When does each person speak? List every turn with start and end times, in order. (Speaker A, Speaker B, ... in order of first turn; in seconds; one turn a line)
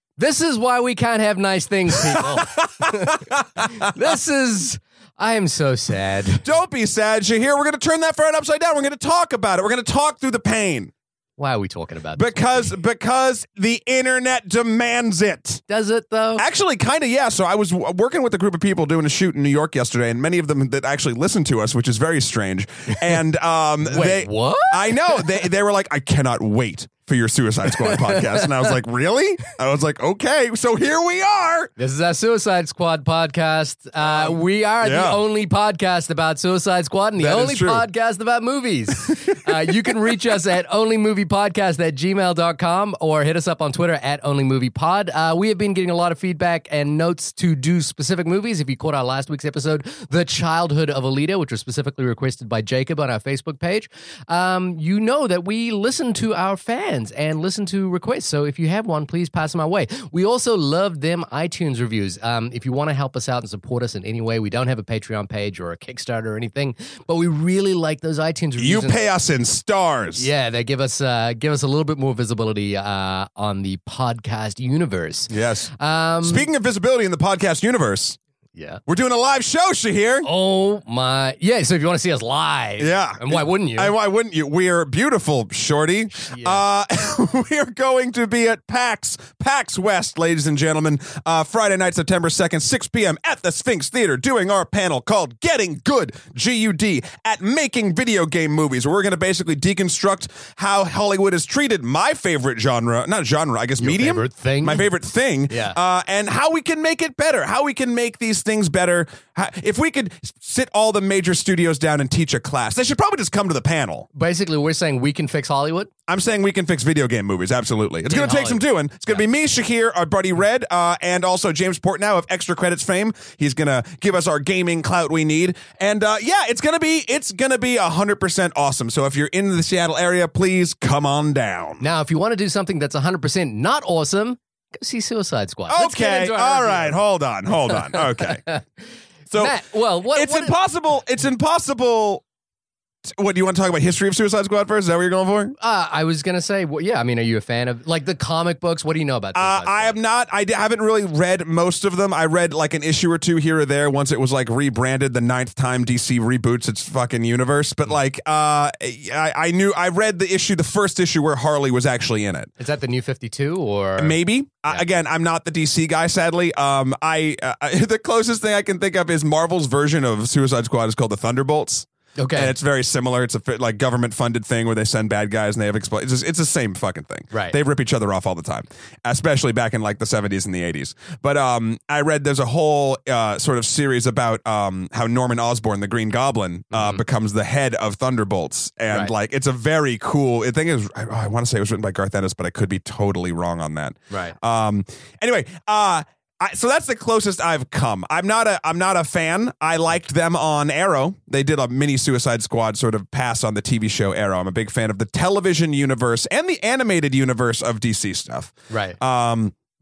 Speaker A: 0.2-6.5
Speaker B: 1.9-3.9
Speaker B: 6.4-10.9
Speaker A: 11.4-12.7
Speaker B: 12.2-15.6
Speaker A: 15.7-16.4
Speaker B: 16.4-31.7
Speaker A: 23.8-25.4
Speaker A: 27.7-28.7
Speaker A: 31.8-69.1
Speaker B: 34.0-35.2
Speaker B: 37.2-37.9
Speaker B: 39.1-39.5
Speaker B: 68.6-70.3
Speaker A: 70.2-76.5
Speaker B: 75.3-75.7
Speaker B: 76.2-78.2
Speaker A: 78.5-78.8
Speaker B: 78.9-80.3
Speaker A: 80.2-83.9
Speaker B: 82.8-114.1
Speaker A: 86.2-86.6
Speaker A: 103.8-104.9
Speaker A: 105.5-105.8
Speaker A: 114.1-115.9
Speaker B: 116.1-131.8
Speaker A: 118.1-118.6
Speaker A: 131.8-137.0
Speaker B: 135.7-138.4
Speaker A: 137.7-140.6
Speaker B: 139.3-142.2
Speaker B: 143.1-145.6
Speaker A: 145.6-150.0
Speaker B: 149.3-162.5
Speaker A: 162.6-164.2
Speaker B: 164.0-209.5
Speaker A: 172.2-172.5
Speaker A: 177.3-177.6
Speaker A: 186.7-187.0
Speaker A: 208.7-209.0